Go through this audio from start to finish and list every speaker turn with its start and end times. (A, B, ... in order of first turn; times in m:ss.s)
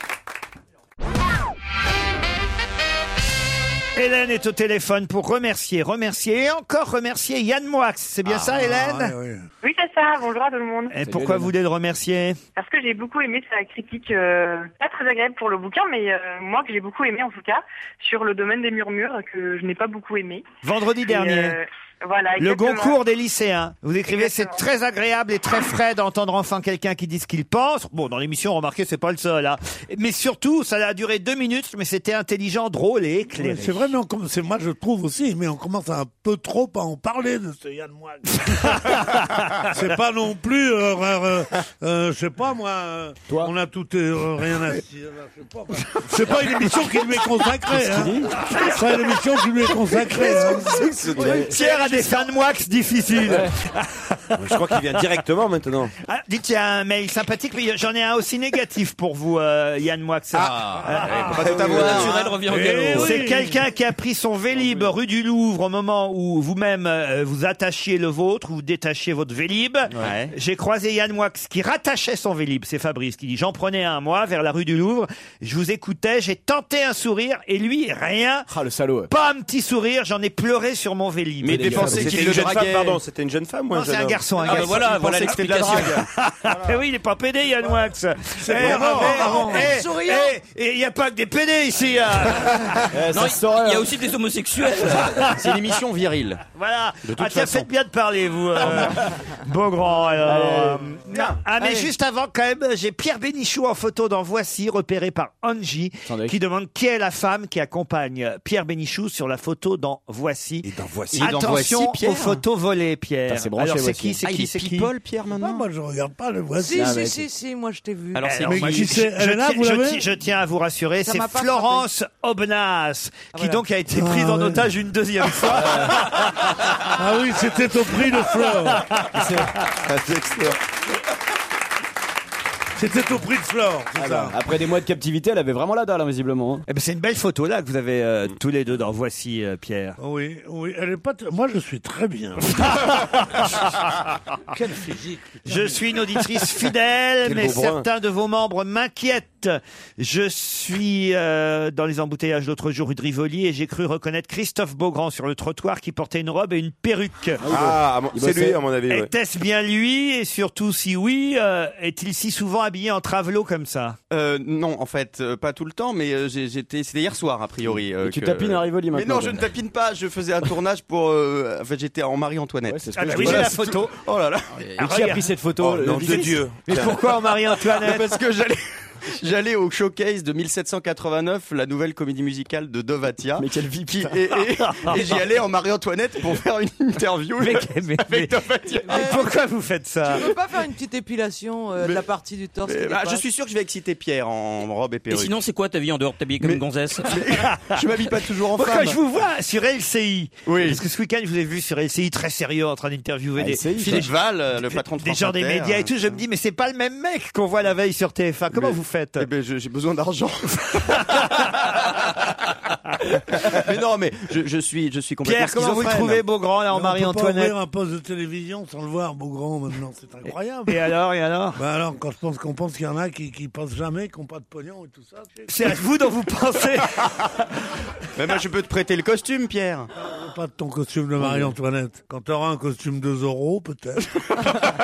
0:04.0-0:09.1 A
0:08.4-0:09.5 B
0:09.6-0:10.9 C
0:10.9-0:12.4 A
0:11.0-0:11.5 D
0:12.6-0:20.5 C
0:20.6-0:21.6 A
0:21.0-0:23.0 C
0:22.4-0:33.9 A
0:24.1-0:24.6 C
0:33.4-0:39.0 B
0:38.5-0:39.4 A
0:39.7-0:50.9 B
0:47.7-0:48.4 D
0:48.4-0:49.0 A
0:49.9-0:54.7 A
0:51.0-0:51.5 E
0:51.2-0:51.5 D
0:51.7-0:52.0 F
0:53.2-0:53.5 D
0:54.4-0:55.9 E
0:56.1-1:02.3 A
1:00.9-1:02.3 F
1:01.0-1:01.9 B
1:01.2-1:02.2 E
1:01.6-1:03.2 G
1:02.4-1:03.6 B
1:02.9-1:18.5 A
1:04.5-1:04.9 D
1:10.0-1:10.3 F
1:18.5-1:19.1 D
1:19.1-1:22.5 A
1:21.4-1:23.0 F
1:21.5-1:22.3 D
1:21.7-1:24.7 E
1:23.7-1:32.9 A
1:24.4-1:26.0 G
1:24.5-1:26.1 F
1:26.5-1:26.8 E
1:28.4-1:29.8 B
1:28.7-1:30.4 H
1:32.9-1:34.0 D
1:33.1-1:35.2 G
1:34.8-1:35.7 A
1:35.2-1:36.4 F
1:36.5-1:54.9 A
1:37.0-1:37.7 F
1:38.6-1:38.9 F
1:40.2-1:41.0 D
1:41.1-1:41.9 F
1:46.0-1:46.4 D
1:51.1-1:52.4 F
1:53.3-1:54.2 D
1:54.2-1:55.6 F
1:55.4-1:57.0 B
1:56.6-1:58.4 H
1:56.8-1:57.2 D
1:58.1-1:58.9 F
1:58.2-2:06.7 A
1:58.4-2:00.0 B
2:01.0-2:01.9 H
2:03.3-2:03.7 H
2:03.9-2:04.7 B
2:05.6-2:06.0 D
2:07.0-2:08.9 B
2:08.7-2:09.5 A
2:09.1-2:09.5 D
2:09.9-2:10.6 E
2:12.8-2:14.4 B
2:14.0-2:16.6 D
2:16.7-2:20.0 A
2:20.0-2:22.7 B
2:22.6-2:23.7 A
2:24.5-2:25.8 B
2:25.5-2:37.4 A
2:27.2-2:27.9 E
2:37.4-2:38.6 D
2:37.5-2:39.1 E
2:38.9-2:44.0 A
2:44.1-2:54.6 F
2:48.0-2:49.5 D
2:52.7-2:53.6 D
2:52.9-2:53.9 A
2:54.8-2:56.6 D
2:54.8-2:55.4 A
2:55.6-2:57.0 E
2:56.0-2:58.2 A
2:57.5-3:09.2 F
3:03.4-3:04.2 D
3:04.6-3:05.0 A
3:07.4-3:08.3 A
3:08.9-3:10.3 A
3:08.9-3:09.4 H
3:10.0-3:13.3 H
3:11.8-3:12.0 F
3:12.6-3:15.4 F
3:15.1-3:17.2 G
3:16.4-3:19.0 F
3:17.3-3:29.3 A
3:20.5-3:20.8 F
3:23.4-3:24.1 D
3:23.8-3:26.0 F
3:28.5-3:31.4 F
3:33.4-3:36.2 F
3:35.2-3:37.5 A
3:36.7-3:40.8 B
3:40.7-3:41.6 A
3:41.6-3:45.5 B
3:45.5-3:47.3 A
3:48.2-3:49.9 F
3:50.0-3:54.1 B
3:51.2-3:51.5 D